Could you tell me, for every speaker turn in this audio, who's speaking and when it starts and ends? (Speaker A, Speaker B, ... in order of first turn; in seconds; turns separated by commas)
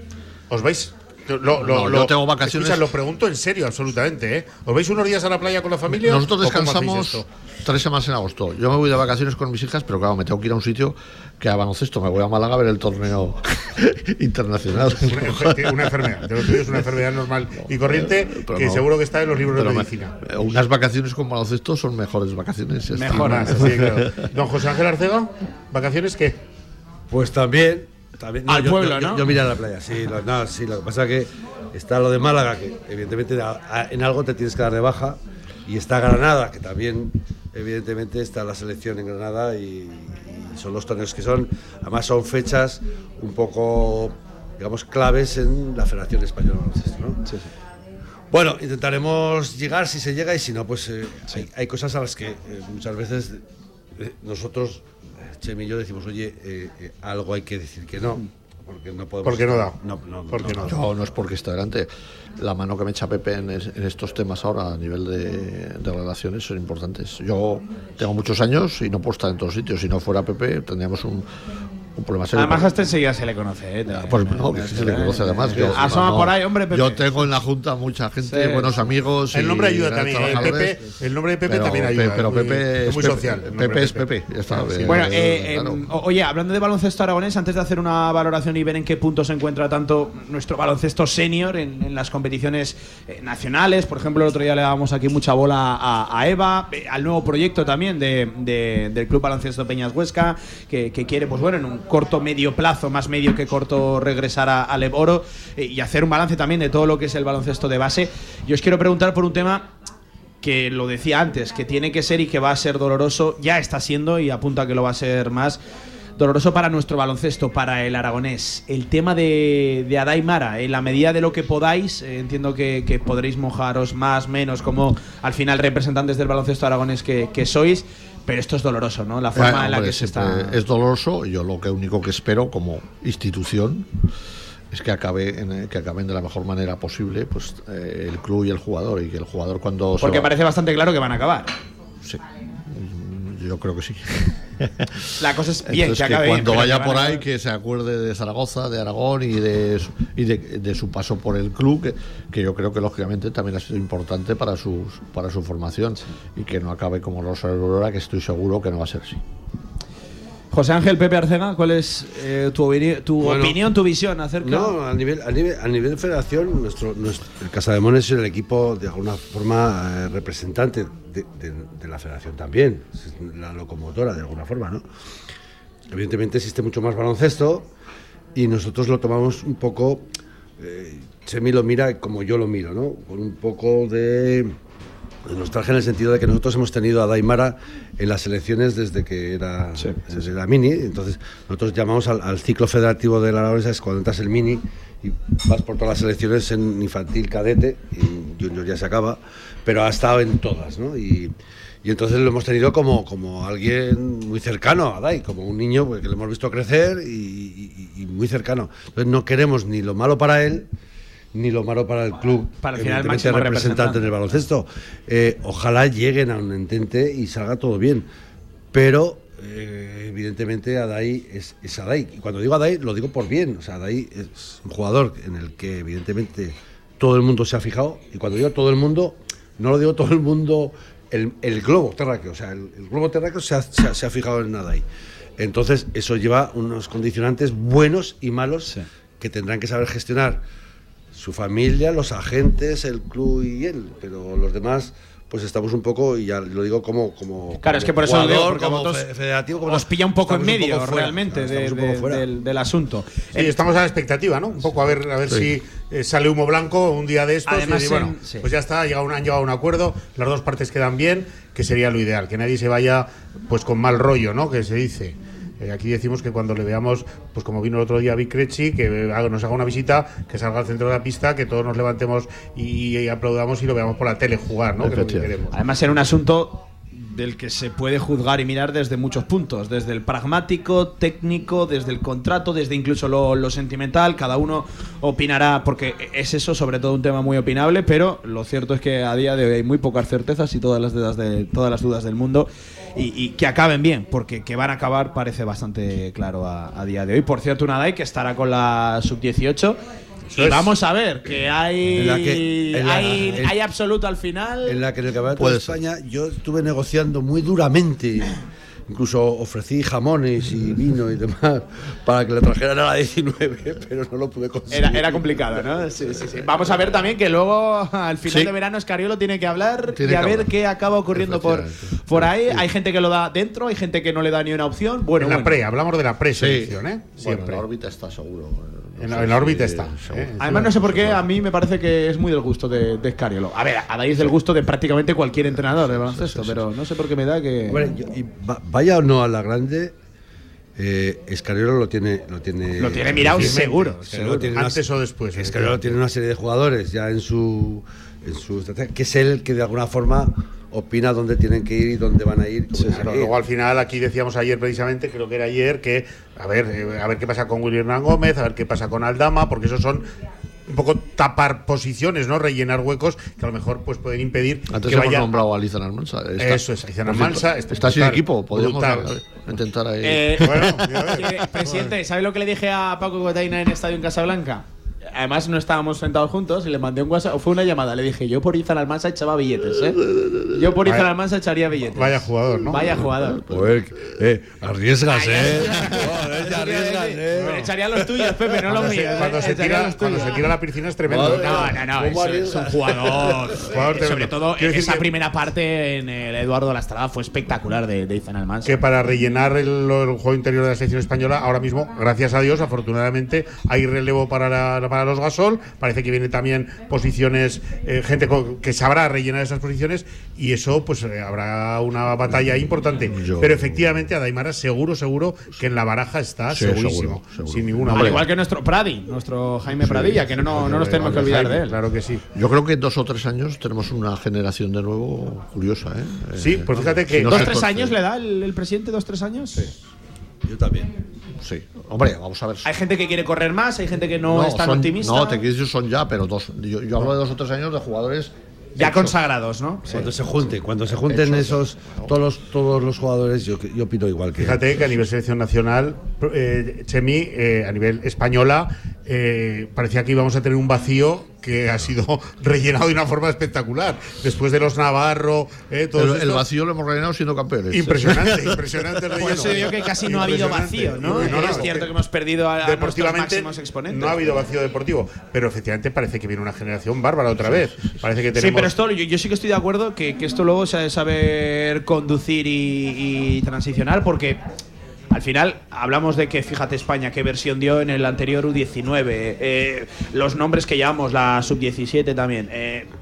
Speaker A: 0.5-7.2, Speaker B: 1.6-2.9, Speaker B: 5.9-16.8, Speaker A: 15.0-20.1, Speaker B: 17.5-18.9, Speaker B: 19.4-24.3, Speaker C: 22.9-23.8, Speaker A: 23.1-26.4, Speaker D: 27.1-47.2, Speaker C: 28.5-29.3, Speaker D: 48.3-53.4, Speaker D: 54.0-60.6, Speaker A: 59.2-59.8, Speaker A: 60.3-60.7, Speaker B: 60.6-71.2, Speaker B: 71.9-72.7, Speaker C: 72.3-77.1, Speaker B: 73.9-80.8, Speaker C: 78.2-78.7, Speaker A: 79.3-85.1, Speaker B: 81.5-85.9, Speaker C: 84.8-109.7, Speaker C: 110.4-115.6, Speaker C: 116.2-130.6, Speaker B: 129.3-133.9, Speaker B: 134.7-140.3, Speaker C: 140.0-141.5, Speaker B: 142.0-159.2, Speaker C: 145.2-147.2, Speaker C: 160.5-164.8, Speaker D: 163.2-163.6, Speaker D: 164.4-174.8, Speaker D: 175.9-177.7, Speaker D: 178.3-180.1, Speaker D: 180.6-184.6, Speaker D: 185.2-201.3, Speaker C: 189.8-190.1, Speaker D: 201.8-210.7, Speaker D: 211.3-218.1, Speaker C: 212.6-214.3, Speaker D: 218.7-234.8, Speaker D: 235.4-240.4, Speaker D: 241.1-252.2, Speaker C: 247.6-249.1, Speaker C: 249.6-253.5, Speaker A: 253.3-275.6, Speaker C: 257.5-258.5, Speaker B: 274.8-275.4, Speaker C: 275.5-299.8, Speaker A: 300.4-300.7, Speaker C: 300.4-304.8, Speaker D: 301.9-303.6, Speaker D: 304.6-308.3, Speaker B: 305.3-305.8, Speaker D: 308.9-316.7, Speaker C: 314.7-325.6, Speaker B: 318.2-318.5, Speaker B: 319.9-320.5, Speaker B: 321.1-322.6, Speaker A: 325.2-327.6, Speaker B: 326.3-331.2, Speaker A: 329.0-330.7, Speaker C: 330.4-337.8, Speaker B: 335.4-336.6, Speaker D: 337.7-339.9, Speaker D: 340.8-353.3, Speaker C: 342.8-344.5, Speaker A: 343.3-344.0, Speaker A: 344.5-345.9, Speaker C: 352.7-353.0, Speaker A: 352.9-360.0, Speaker A: 360.7-365.3, Speaker B: 364.7-371.2, Speaker A: 366.4-369.1, Speaker C: 370.0-383.4, Speaker A: 370.4-371.9, Speaker B: 379.9-380.8, Speaker A: 381.9-383.0, Speaker B: 382.7-384.2, Speaker D: 383.5-387.7, Speaker C: 385.1-390.4, Speaker A: 388.7-391.7, Speaker D: 391.1-393.4, Speaker C: 391.1-398.8, Speaker A: 393.6-395.1, Speaker A: 398.6-418.2, Speaker B: 413.1-414.1, Speaker B: 416.5-418.2, Speaker C: 417.9-421.8, Speaker B: 419.7-421.6, Speaker A: 420.8-422.2, Speaker B: 422.3-427.9, Speaker A: 426.4-427.6, Speaker C: 427.2-429.7, Speaker D: 430.4-430.9, Speaker B: 431.4-432.7, Speaker C: 432.6-435.3, Speaker B: 434.3-439.1, Speaker C: 438.8-440.0, Speaker D: 439.9-444.6, Speaker B: 440.9-442.1, Speaker A: 444.4-456.4, Speaker B: 455.9-458.6, Speaker A: 457.7-461.9, Speaker C: 459.1-464.3, Speaker B: 461.1-461.6, Speaker A: 462.6-468.7, Speaker B: 467.4-468.0, Speaker C: 468.3-474.4, Speaker C: 475.1-482.9